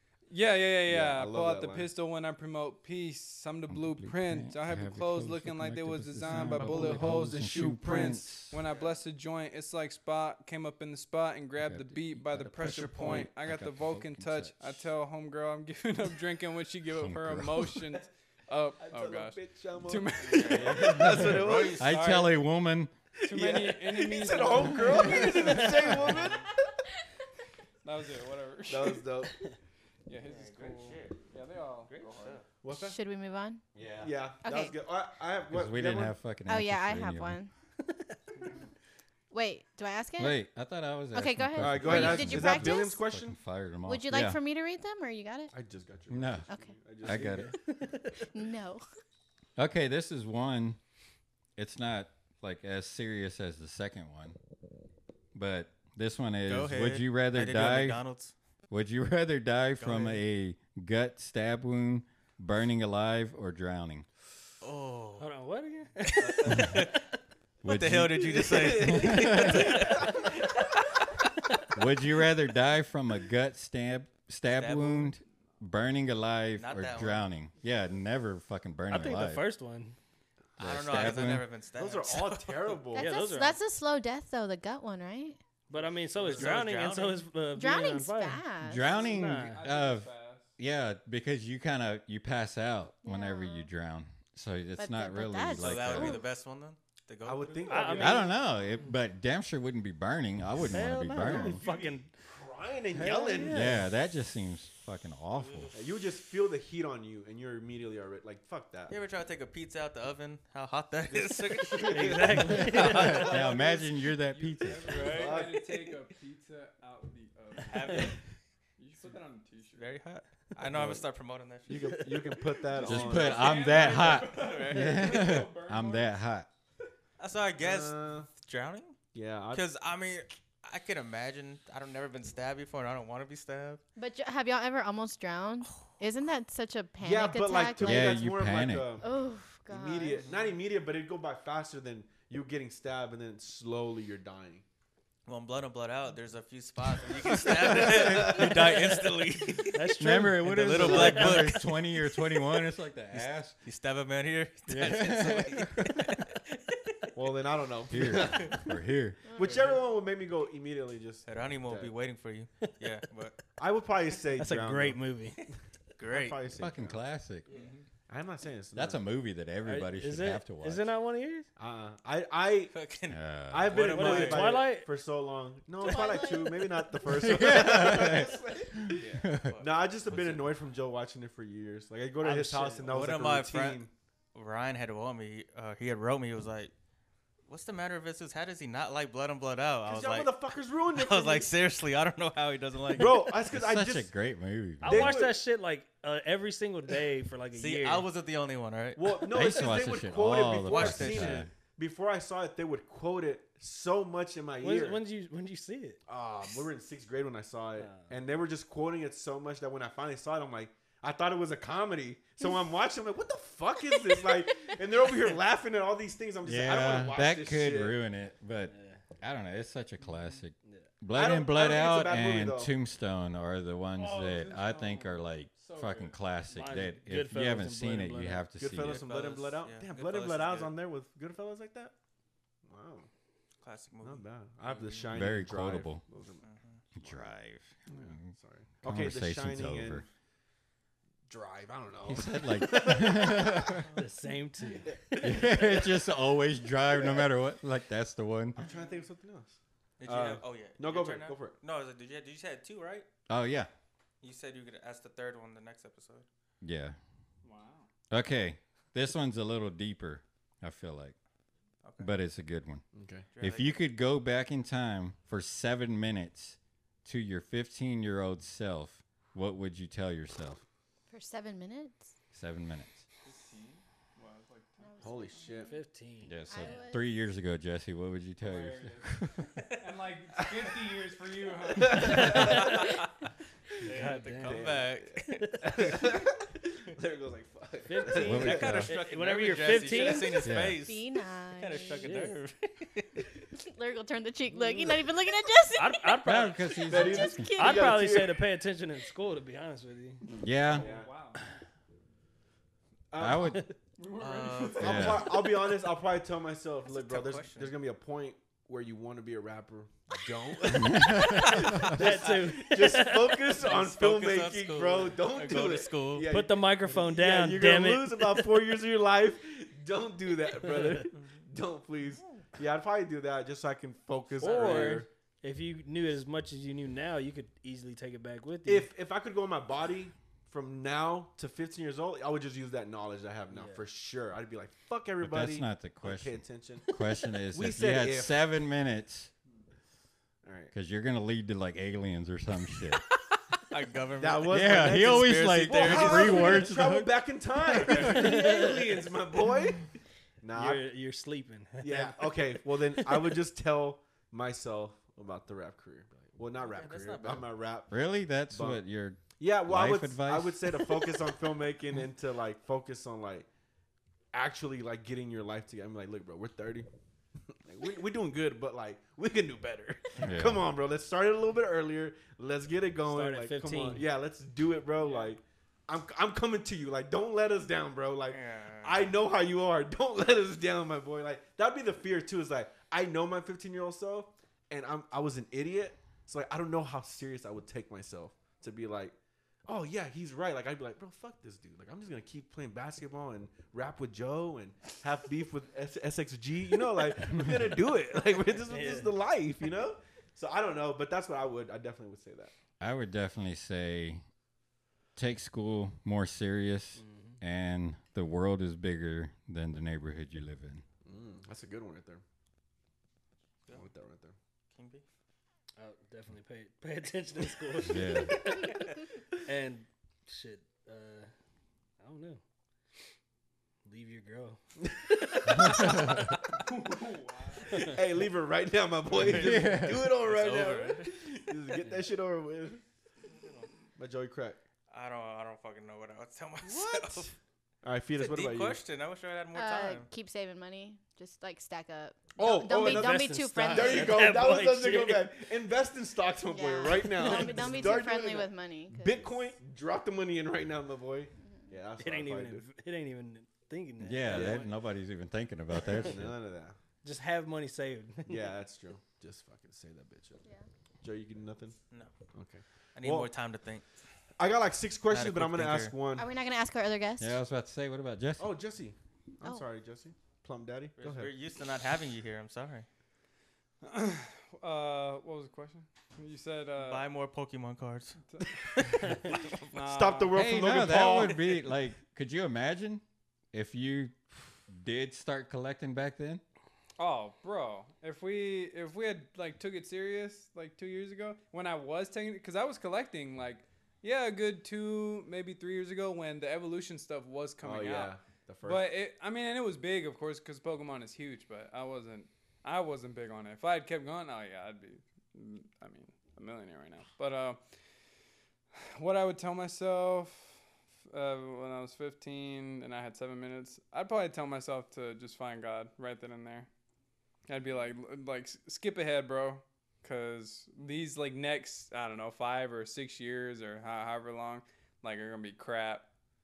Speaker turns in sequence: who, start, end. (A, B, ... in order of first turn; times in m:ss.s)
0:00.3-0:21.3 A
0:00.9-0:01.9 B
0:03.7-0:08.6 C
0:06.3-0:08.1 B
0:11.6-0:14.8 C
0:16.9-0:17.9 C
0:18.8-0:21.8 B
0:20.2-0:22.0 D
0:20.8-0:22.9 C
0:21.8-0:22.4 A
0:23.2-0:25.9 A
0:23.2-0:26.5 B
0:27.8-0:29.2 A
0:28.7-0:29.3 B
0:30.1-0:32.4 A
0:30.2-0:31.2 D
0:31.9-0:32.4 D
0:32.6-0:33.0 B
0:32.7-0:33.6 E
0:33.7-0:34.1 C
0:34.0-0:36.2 B
0:34.4-0:34.7 E
0:35.5-0:37.4 C
0:36.5-0:37.5 E
0:37.9-0:38.2 F
0:39.3-0:40.4 E
0:40.2-0:44.4 C
0:41.1-0:43.0 E
0:41.6-0:43.4 B
0:43.8-0:45.5 E
0:45.5-0:47.5 B
0:46.1-0:46.5 C
0:46.5-0:46.7 E
0:47.0-0:47.5 C
0:47.1-0:48.2 F
0:48.2-0:48.8 E
0:49.6-0:50.8 C
0:51.6-0:54.4 C
0:55.3-0:58.0 C
0:56.5-0:58.3 D
0:58.7-1:04.1 C
0:59.8-1:00.2 D
1:04.6-1:05.3 D
1:05.2-1:06.9 F
1:06.1-1:07.0 D
1:07.6-1:09.8 C
1:07.6-1:10.3 D
1:08.3-1:10.1 B
1:11.7-1:19.4 C
1:14.5-1:15.1 D
1:16.6-1:17.3 D
1:18.9-1:20.0 F
1:20.6-1:21.5 C
1:20.6-1:22.8 D
1:21.8-1:23.1 B
1:22.9-1:25.4 E
1:23.0-1:23.6 F
1:25.7-1:28.5 F
1:26.2-1:27.3 D
1:27.6-1:29.0 E
1:28.6-1:36.2 C
1:28.8-1:30.6 A
1:29.0-1:29.6 F
1:33.0-1:33.7 E
1:34.8-1:36.3 E
1:35.5-1:38.2 D
1:37.2-1:38.3 B
1:37.7-1:38.9 F
1:38.0-1:41.6 C
1:40.7-1:42.1 F
1:41.2-1:43.8 B
1:42.9-1:43.8 F
1:43.5-1:45.8 C
1:45.4-1:45.7 D
1:45.7-1:49.0 B
1:48.9-1:53.5 D
1:51.8-1:53.3 F
1:52.5-1:55.2 C
1:52.8-1:58.2 A
1:54.8-1:55.6 D
1:55.1-1:55.6 B
1:57.7-1:58.2 D
1:58.8-2:00.0 A
1:59.8-2:05.4 D
2:00.6-2:01.0 B
2:01.7-2:03.6 B
2:02.8-2:06.5 C
2:02.8-2:06.2 A
2:07.2-2:09.0 D
2:07.6-2:08.3 B
2:09.1-2:09.6 B
2:09.5-2:13.8 D
2:14.0-2:18.2 E
2:17.0-2:19.1 B
2:17.8-2:18.9 C
2:19.0-2:20.2 E
2:19.7-2:24.6 B
2:25.3-2:32.3 D
2:27.4-2:29.0 B
2:29.7-2:31.6 F
2:30.0-2:33.6 C
2:33.1-2:36.9 D
2:34.7-2:36.0 C
2:37.2-2:38.7 B
2:37.9-2:39.2 C
2:38.2-2:38.6 D
2:39.3-2:39.6 E
2:39.3-2:41.9 B
2:41.3-2:43.4 D
2:43.6-2:45.0 B
2:44.4-2:45.4 F
2:46.0-2:46.4 D
2:46.0-2:47.0 B
2:46.6-2:47.5 C
2:47.5-2:47.8 D
2:48.1-2:49.0 B
2:48.8-2:50.9 C
2:49.6-2:51.5 F
2:51.6-2:52.7 B
2:52.7-2:54.6 D
2:53.1-2:53.8 C
2:53.5-3:03.9 B
2:53.9-2:54.9 F
2:55.8-2:57.0 E
2:57.1-2:59.6 C
2:59.0-3:00.6 D
3:02.2-3:03.1 F
3:02.9-3:03.8 D
3:04.4-3:06.7 D
3:07.5-3:10.4 D
3:09.9-3:11.5 B
3:10.9-3:13.4 D
3:12.9-3:14.1 B
3:13.5-3:15.2 C
3:14.8-3:18.1 F
3:14.8-3:15.4 B
3:17.5-3:19.6 D
3:19.0-3:25.0 B
3:19.3-3:21.5 C
3:20.6-3:21.5 D
3:24.6-3:26.0 F
3:26.1-3:38.0 B
3:27.8-3:28.1 F
3:36.4-3:49.0 C
3:38.7-3:39.0 F
3:41.1-3:42.7 B
3:44.0-3:46.2 A
3:46.5-3:48.4 F
3:48.6-3:52.0 B
3:48.8-3:50.7 D
3:52.6-3:53.1 B
3:53.6-3:55.2 D
3:54.0-3:56.5 B
3:55.1-3:56.0 C
3:56.4-3:56.8 D
3:57.0-3:58.3 C
3:57.0-3:57.3 B
3:57.9-4:00.1 B
3:58.8-4:00.0 C
4:01.3-4:03.8 B
4:02.0-4:03.9 C
4:04.0-4:05.0 F
4:04.9-4:06.0 B
4:05.2-4:08.6 C
4:08.6-4:11.6 B
4:08.6-4:09.0 A
4:10.0-4:13.1 D
4:13.3-4:13.7 C
4:14.2-4:16.3 D
4:16.6-4:17.0 C
4:17.4-4:17.9 A
4:18.1-4:21.2 C
4:21.8-4:22.1 D
4:22.0-4:22.8 C
4:22.9-4:23.3 B
4:23.4-4:23.8 D
4:23.4-4:30.6 C
4:31.1-4:32.1 E
4:32.3-4:33.0 C
4:33.2-4:35.2 A
4:34.8-4:35.8 E
4:35.0-4:35.7 B
4:35.6-4:36.7 F
4:36.2-4:39.8 C
4:36.5-4:37.1 E
4:38.4-4:39.2 A
4:39.8-4:42.6 A
4:41.8-4:42.6 B
4:42.0-4:42.9 F
4:42.2-4:43.1 D
4:43.8-4:46.0 D
4:43.8-4:44.7 F
4:44.4-4:48.8 B
4:45.4-4:45.9 F
4:47.9-4:50.5 F
4:48.2-4:53.2 D
4:48.2-4:48.9 C
4:50.4-4:50.8 C
4:50.8-4:52.1 E
4:52.0-4:52.4 F
4:53.6-4:58.2 E
4:54.5-4:55.0 F
4:55.8-4:56.8 F
4:56.2-4:57.5 C
4:56.9-4:58.4 B
4:57.5-5:00.2 F
5:00.3-5:01.4 A
5:00.4-5:00.9 C
5:00.7-5:01.1 B
5:03.1-5:03.6 B
5:03.2-5:03.7 C
5:04.0-5:05.5 A
5:04.2-5:05.3 D
5:04.8-5:25.1 B
5:04.8-5:05.3 C
5:06.8-5:07.7 D
5:10.9-5:11.4 C
5:11.2-5:16.3 D
5:11.8-5:13.3 F
5:16.3-5:18.4 F
5:20.8-5:21.0 F
5:22.2-5:22.5 D
5:24.4-5:28.9 F
5:24.4-5:25.0 D
5:28.7-5:36.9 B
5:33.5-5:33.8 F
5:35.2-5:39.3 C
5:37.5-5:38.4 B
5:40.4-5:40.7 B
5:40.7-5:43.0 C
5:43.5-5:46.7 D
5:44.2-5:49.9 B
5:44.5-5:47.1 C
5:47.9-5:49.0 F
5:50.4-5:50.8 B
5:50.5-5:53.4 F
5:51.8-5:58.0 B
5:56.6-5:57.4 D
5:57.9-6:00.9 C
5:58.5-5:58.8 B
5:59.4-6:03.5 B
6:04.3-6:06.9 B
6:07.6-6:29.2 B
6:10.2-6:10.6 C
6:13.1-6:14.1 F
6:18.3-6:19.1 D
6:29.7-6:42.5 B
6:38.7-6:39.1 F
6:42.8-6:44.2 C
6:45.2-6:50.8 C
6:47.0-6:47.4 F
6:51.0-6:52.2 B
6:53.7-6:54.4 B
6:54.7-6:55.0 D
6:55.8-7:01.3 F
6:57.9-6:58.4 C
7:02.0-7:02.4 F
7:03.8-7:04.6 F
7:04.8-7:05.8 B
7:05.3-7:05.8 F
7:06.6-7:07.9 A
7:07.7-7:12.8 B
7:09.2-7:11.2 D
7:09.2-7:10.1 C
7:13.3-7:13.7 D
7:14.0-7:14.6 B
7:14.9-7:17.3 D
7:16.6-7:17.3 B
7:17.8-7:18.8 B
7:18.2-7:20.1 D
7:19.6-7:24.2 E
7:22.4-7:32.7 B
7:22.7-7:25.4 F
7:26.5-7:29.4 E
7:27.2-7:27.8 F
7:32.0-7:34.7 F
7:34.0-7:36.3 C
7:34.3-7:34.7 B
7:36.0-7:36.8 B
7:37.0-7:38.5 F
7:38.3-7:40.4 B
7:41.0-7:41.8 B
7:42.3-7:43.3 B
7:43.0-7:43.8 D
7:44.4-7:46.3 B
7:45.1-7:45.9 D
7:46.2-7:47.4 E
7:47.2-7:48.5 C
7:48.4-7:51.3 B
7:51.0-7:52.9 D
7:53.8-7:57.1 A
7:56.8-7:58.2 D
7:58.3-7:59.1 A
7:59.7-8:01.1 A
7:59.8-8:01.5 B
8:00.3-8:06.4 C
8:07.0-8:27.6 A
8:17.6-8:18.9 B
8:28.8-8:30.6 A
8:31.1-8:36.7 A
8:37.5-8:46.0 A